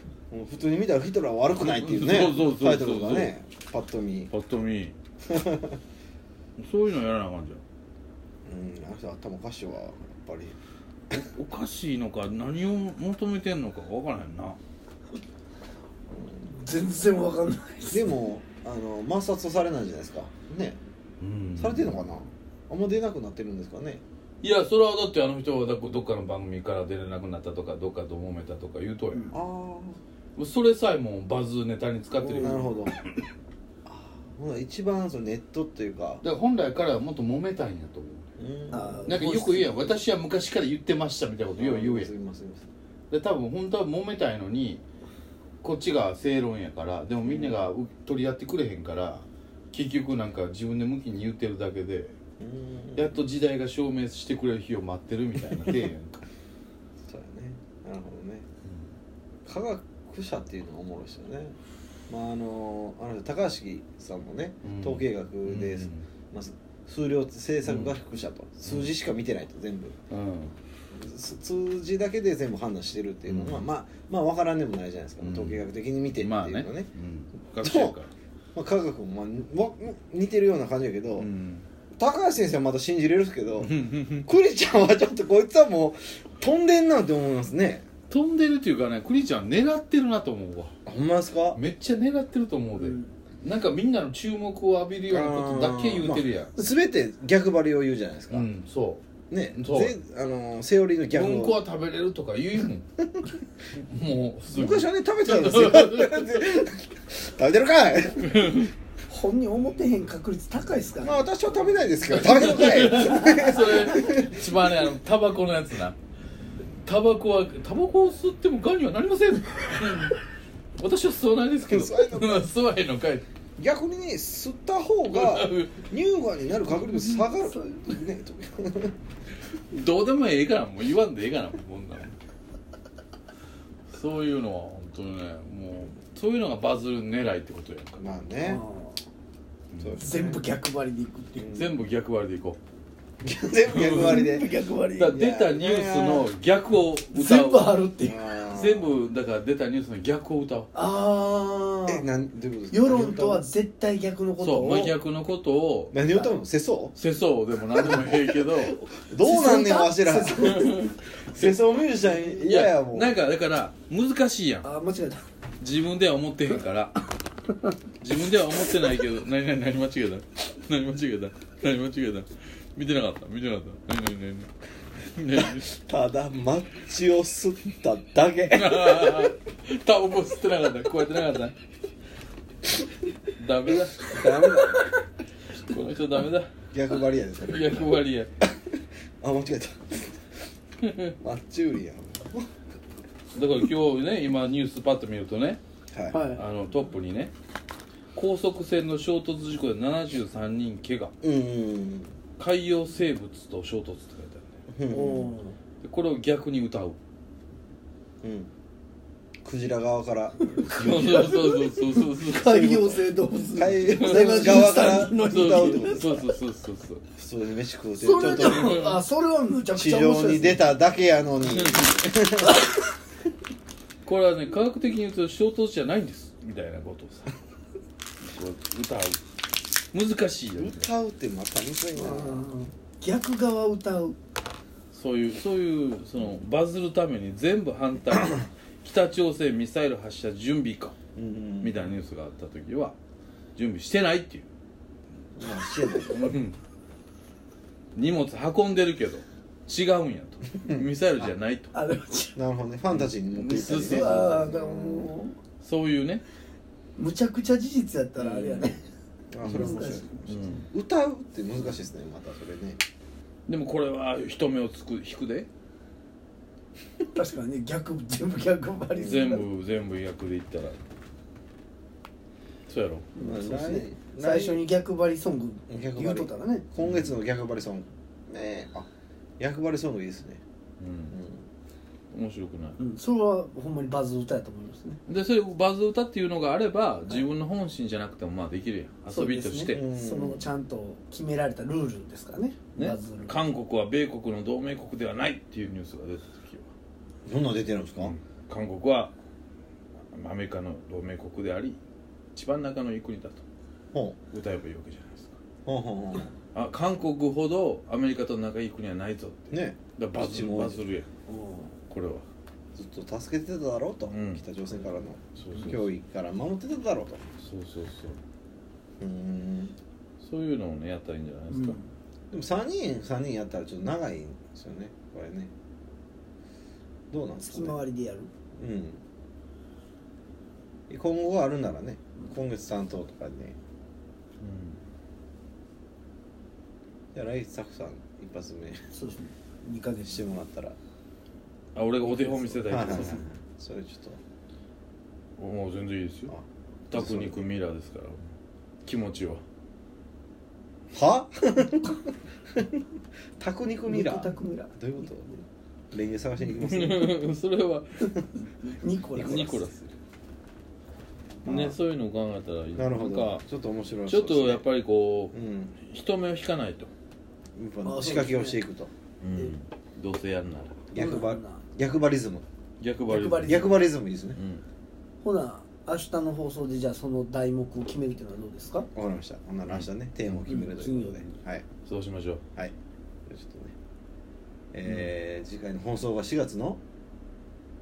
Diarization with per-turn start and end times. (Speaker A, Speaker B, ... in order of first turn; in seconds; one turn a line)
Speaker A: 0.3-4.3
Speaker B: 1.6-3.3
Speaker B: 4.3-4.9
Speaker A: 5.2-5.8
Speaker B: 6.6-7.6
Speaker A: 8.4-10.6
Speaker B: 11.1-14.6
Speaker C: 16.5-18.1
Speaker A: 17.9-20.8
Speaker B: 21.2-22.0
Speaker A: 21.6-24.0
Speaker B: 24.4-29.3
Speaker A: 29.3-30.0
Speaker B: 30.4-32.9
Speaker C: 32.3-32.6
Speaker A: 32.3-33.0
Speaker A: 33.9-36.2
Speaker B: 36.2-38.3
Speaker A: 38.4-39.1
Speaker C: 38.7-40.0
Speaker B: 39.0-42.1
Speaker A: 41.6-42.6
Speaker B: 43.1-44.8
Speaker B: 45.6-52.1
Speaker A: 47.2-47.6
Speaker A: 52.4-53.2
Speaker B: 53.0-56.2
Speaker A: 57.1-58.5
Speaker A: 59.5-61.5
Speaker A: 62.1-70.0
Speaker B: 64.6-66.0
Speaker B: 67.6-67.9
Speaker B: 70.1-70.5
Speaker A: 70.9-76.9
Speaker B: 73.3-73.7
Speaker B: 75.2-75.6
Speaker B: 76.1-78.1
Speaker A: 77.6-78.0
Speaker A: 78.5-81.3
Speaker B: 81.2-81.7
Speaker A: 82.0-87.8
Speaker B: 83.6-84.3
Speaker B: 88.1-90.7
Speaker A: 90.8-91.6
Speaker B: 91.5-96.5
Speaker C: 92.8-93.1
Speaker A: 95.1-98.5
Speaker B: 98.3-99.0
Speaker A: 99.3-101.6
Speaker B: 99.5-100.0
Speaker B: 101.1-102.9
Speaker B: 103.7-106.7
Speaker A: 104.5-108.7
Speaker B: 108.2-108.7
Speaker C: 109.1-111.3
Speaker A: 111.0-114.5
Speaker B: 112.1-116.0
Speaker C: 112.9-113.7
Speaker B: 116.8-120.2
Speaker B: 120.8-123.2
Speaker A: 121.7-122.5
Speaker A: 123.6-128.9
Speaker B: 125.1-125.8
Speaker C: 127.5-127.9
Speaker B: 129.7-132.2
Speaker B: 133.9-138.2
Speaker A: 138.0-138.6
Speaker C: 138.4-139.0
Speaker B: 139.7-140.0
Speaker A: 139.8-140.4
Speaker C: 140.0-141.5
Speaker A: 141.4-141.7
Speaker B: 141.5-142.6
Speaker A: 143.2-144.5
Speaker B: 143.7-144.3
Speaker C: 143.9-145.2
Speaker B: 144.9-147.8
Speaker A: 145.1-146.3
Speaker C: 147.1-148.3
Speaker A: 148.0-148.9
Speaker B: 148.5-150.7
Speaker C: 150.7-152.1
Speaker A: 151.9-153.4
Speaker C: 152.7-154.9
Speaker B: 154.4-156.0
Speaker A: 155.9-156.9
Speaker C: 156.1-156.3
Speaker B: 156.9-158.8
Speaker A: 158.7-160.7
Speaker C: 159.2-160.9
Speaker B: 160.3-161.8
Speaker A: 161.3-163.1
Speaker B: 162.3-164.7
Speaker C: 164.6-165.2
Speaker B: 165.6-167.1
Speaker B: 168.0-174.5
Speaker B: 175.1-175.7
Speaker A: 175.3-179.3
Speaker B: 178.5-181.5
Speaker B: 183.3-184.8
Speaker A: 184.0-184.9
Speaker B: 185.6-186.5
Speaker A: 186.7-188.5
Speaker B: 187.5-188.3
Speaker A: 189.2-190.1
Speaker B: 190.8-191.1
Speaker A: 191.2-192.5
Speaker B: 193.3-195.6
Speaker A: 195.9-196.2
Speaker C: 196.1-196.4
Speaker B: 196.2-197.3
Speaker B: 198.1-201.1
Speaker A: 201.2-202.1
Speaker B: 202.4-204.5
Speaker A: 204.7-205.3
Speaker C: 204.9-205.6
Speaker B: 205.8-207.0
Speaker A: 208.2-208.5
Speaker A: 209.4-211.5
Speaker C: 210.6-216.3
Speaker B: 210.7-212.7
Speaker A: 212.2-216.2
Speaker B: 213.9-217.0
Speaker A: 217.2-218.9
Speaker C: 218.0-220.7
Speaker B: 218.2-219.0
Speaker A: 219.7-222.6
Speaker B: 221.4-221.9
Speaker B: 224.0-227.3
Speaker B: 228.2-229.2
Speaker B: 229.9-230.9
Speaker A: 230.6-232.4
Speaker C: 231.9-234.2
Speaker B: 234.9-240.9
Speaker A: 241.2-241.9
Speaker B: 241.6-242.9
Speaker B: 243.6-244.5
Speaker A: 245.4-246.4
Speaker B: 246.1-246.6
Speaker B: 247.9-251.7
Speaker A: 250.7-251.3
Speaker C: 251.7-252.4
Speaker A: 252.3-255.2
Speaker B: 252.9-254.5
Speaker C: 253.6-255.4
Speaker B: 255.6-256.2
Speaker C: 256.9-258.8
Speaker A: 258.2-258.7
Speaker A: 259.3-262.8
Speaker C: 259.4-260.2
Speaker B: 259.5-260.7
Speaker B: 263.5-265.5
Speaker C: 267.1-269.4
Speaker B: 268.9-270.8
Speaker B: 272.7-273.1
Speaker C: 273.1-276.6
Speaker A: 273.2-274.6
Speaker A: 275.7-278.9
Speaker B: 276.8-277.1
Speaker A: 279.4-280.4
Speaker B: 280.8-281.2
Speaker A: 281.1-281.4
Speaker B: 282.1-282.8
Speaker C: 282.8-285.0
Speaker B: 285.1-289.8
Speaker C: 289.1-293.4
Speaker A: 289.7-290.5
Speaker B: 292.8-296.7
Speaker A: 297.2-298.1
Speaker B: 298.0-299.1
Speaker B: 300.1-301.8
Speaker B: 302.3-303.4
Speaker B: 304.3-305.4
Speaker A: 305.6-306.3
Speaker B: 306.5-311.1
Speaker A: 309.5-310.8
Speaker C: 311.3-311.7
Speaker B: 311.9-312.2
Speaker A: 312.7-317.2
Speaker B: 314.1-314.4
Speaker B: 315.4-315.9
Speaker B: 317.4-318.2
Speaker A: 319.0-319.7
Speaker B: 320.2-321.8
Speaker C: 321.5-321.8
Speaker A: 322.3-325.5
Speaker A: 327.1-327.8
Speaker C: 327.5-328.3
Speaker A: 328.6-329.0
Speaker A: 330.9-333.6
Speaker B: 334.4-334.8
Speaker A: 337.1-338.8
Speaker C: 338.9-340.3
Speaker A: 340.1-340.8
Speaker B: 341.7-343.3
Speaker C: 342.1-343.2
Speaker A: 342.7-344.2
Speaker B: 345.4-346.3
Speaker A: 346.3-347.4
Speaker B: 346.9-348.3
Speaker B: 348.9-349.4
Speaker A: 350.9-352.0
Speaker A: 353.4-355.3
Speaker C: 353.9-355.4
Speaker A: 355.9-357.2
Speaker B: 356.5-359.9
Speaker C: 358.7-359.6
Speaker A: 359.2-359.6
Speaker A: 361.4-361.8
Speaker B: 361.4-363.4
Speaker A: 362.7-364.6
Speaker B: 364.1-366.9
Speaker A: 365.3-365.7
Speaker A: 367.6-368.9
Speaker C: 367.8-368.6
Speaker B: 369.2-370.8
Speaker A: 370.9-372.4
Speaker C: 370.9-371.6
Speaker B: 372.8-373.7
Speaker C: 373.1-373.7
Speaker A: 373.4-374.4
Speaker B: 374.3-374.6
Speaker C: 375.2-378.9
Speaker A: 378.9-381.6
Speaker B: 379.7-380.6
Speaker C: 380.5-381.3
Speaker B: 381.9-382.4
Speaker A: 383.3-383.7
Speaker A: 384.7-386.8
Speaker B: 384.8-385.1